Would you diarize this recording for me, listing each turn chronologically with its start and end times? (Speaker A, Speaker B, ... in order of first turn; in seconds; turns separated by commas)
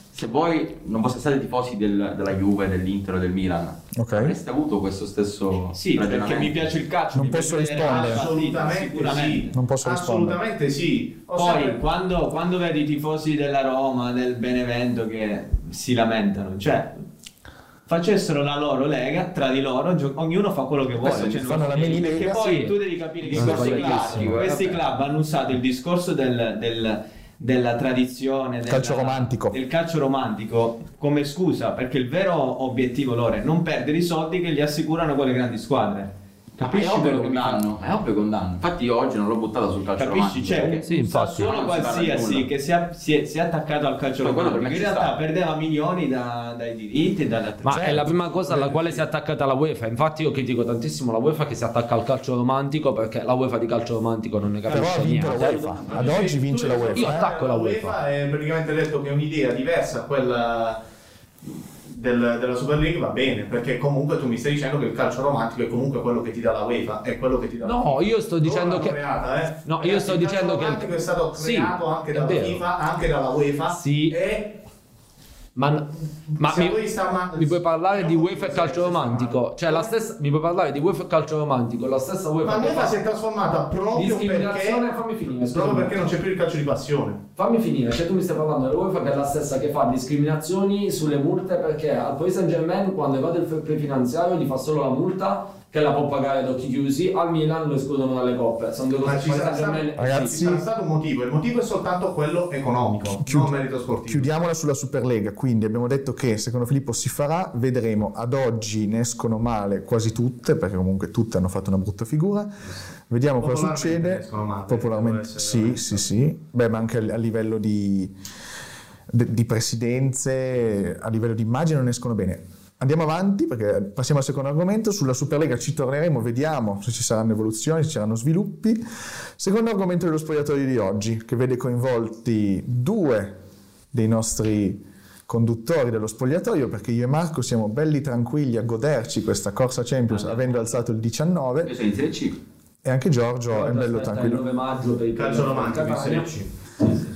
Speaker A: 0.1-6.7, Speaker B: 3.9-4.3, Speaker C: 5.7-9.6, Speaker B: 7.1-8.3, Speaker D: 7.8-11.8, Speaker B: 9.5-10.4, Speaker C: 11.3-17.0, Speaker C: 17.9-37.6, Speaker A: 21.0-22.1, Speaker B: 21.0-22.3, Speaker E: 22.2-24.4, Speaker A: 23.3-24.9, Speaker B: 28.6-29.6, Speaker A: 36.6-42.5, Speaker C: 40.0-48.8, Speaker E: 40.8-41.6, Speaker A: 44.2-45.1, Speaker E: 47.6-55.6, Speaker B: 47.7-48.1, Speaker B: 54.7-57.3, Speaker A: 55.2-56.0, Speaker D: 55.9-60.8, Speaker E: 56.9-58.0, Speaker D: 61.8-74.6, Speaker E: 67.6-69.0, Speaker E: 69.6-72.6, Speaker E: 73.7-74.2, Speaker E: 75.5-83.0, Speaker D: 76.3-79.9, Speaker D: 82.4-87.2, Speaker E: 83.9-86.0, Speaker E: 87.3-100.4, Speaker D: 99.0-104.3, Speaker B: 100.0-100.6, Speaker B: 103.2-118.1, Speaker D: 113.4-116.1, Speaker B: 119.1-128.8, Speaker B: 129.4-133.4, Speaker B: 133.9-141.7, Speaker A: 141.6-142.4, Speaker B: 142.8-144.4, Speaker E: 143.5-146.3, Speaker D: 145.1-146.5